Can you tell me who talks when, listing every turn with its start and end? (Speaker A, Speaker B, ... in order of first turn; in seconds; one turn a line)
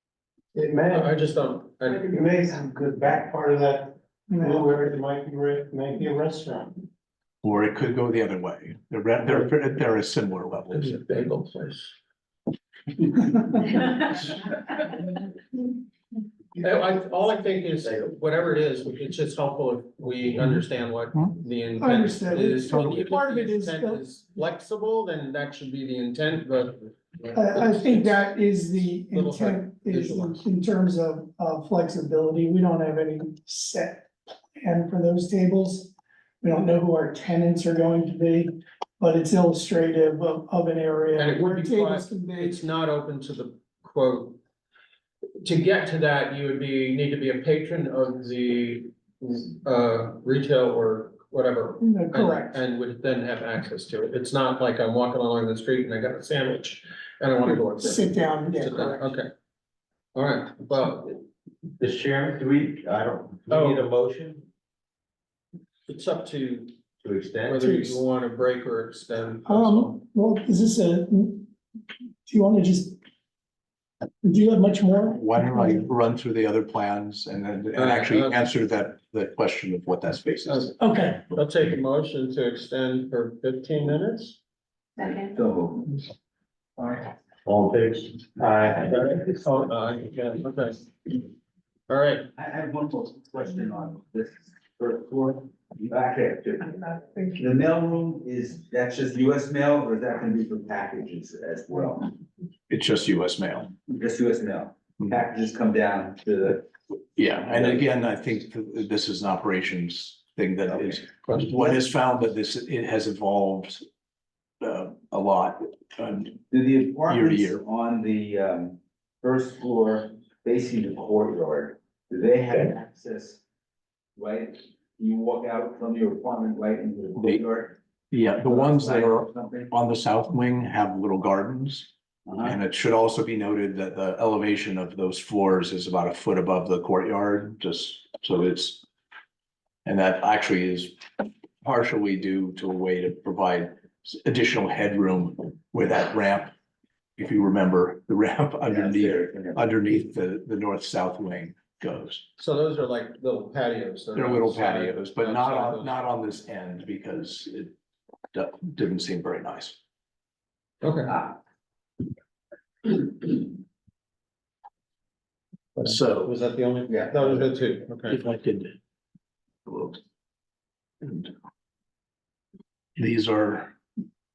Speaker A: 0.5-1.1
Speaker B: 0.9-2.1
Speaker A: 2.1-6.8
Speaker C: 4.3-4.7
Speaker D: 7.4-10.9
Speaker B: 10.7-11.9
Speaker B: 13.5-14.2
Speaker B: 16.6-28.2
Speaker C: 21.8-24.0
Speaker D: 22.7-23.1
Speaker C: 27.3-42.6
Speaker B: 28.7-30.4
Speaker B: 41.1-44.4
Speaker B: 45.4-59.3
Speaker C: 51.8-52.6
Speaker C: 57.4-59.1
Speaker B: 60.1-61.2
Speaker E: 61.8-64.5
Speaker B: 63.5-63.8
Speaker B: 65.9-66.7
Speaker E: 67.0-67.6
Speaker B: 67.4-70.0
Speaker C: 67.6-68.0
Speaker C: 69.5-71.5
Speaker C: 72.3-73.0
Speaker C: 74.2-75.9
Speaker D: 75.1-80.7
Speaker B: 77.8-78.4
Speaker B: 80.5-84.4
Speaker C: 80.8-81.3
Speaker E: 85.0-86.0
Speaker A: 87.4-89.1
Speaker B: 88.8-90.9
Speaker B: 91.9-92.3
Speaker E: 92.3-96.8
Speaker C: 96.8-97.5
Speaker E: 97.4-102.2
Speaker D: 102.7-103.7
Speaker E: 103.9-106.7
Speaker D: 107.1-113.8
Speaker E: 107.5-107.8
Speaker B: 111.2-111.8
Speaker D: 114.6-116.4
Speaker E: 116.5-123.4
Speaker D: 117.1-117.6
Speaker E: 124.2-129.7
Speaker D: 128.1-131.9
Speaker E: 132.2-132.6
Speaker D: 132.4-138.8
Speaker D: 139.8-141.0
Speaker D: 141.6-146.5
Speaker D: 147.2-152.2
Speaker E: 148.7-149.8
Speaker B: 152.4-155.9
Speaker D: 154.2-157.7
Speaker D: 158.3-159.8
Speaker B: 160.8-161.2
Speaker E: 161.1-161.3
Speaker B: 165.8-168.2
Speaker D: 165.8-166.3
Speaker E: 166.9-167.2
Speaker D: 168.1-168.7
Speaker D: 169.7-170.0
Speaker D: 171.0-171.3
Speaker D: 173.0-173.7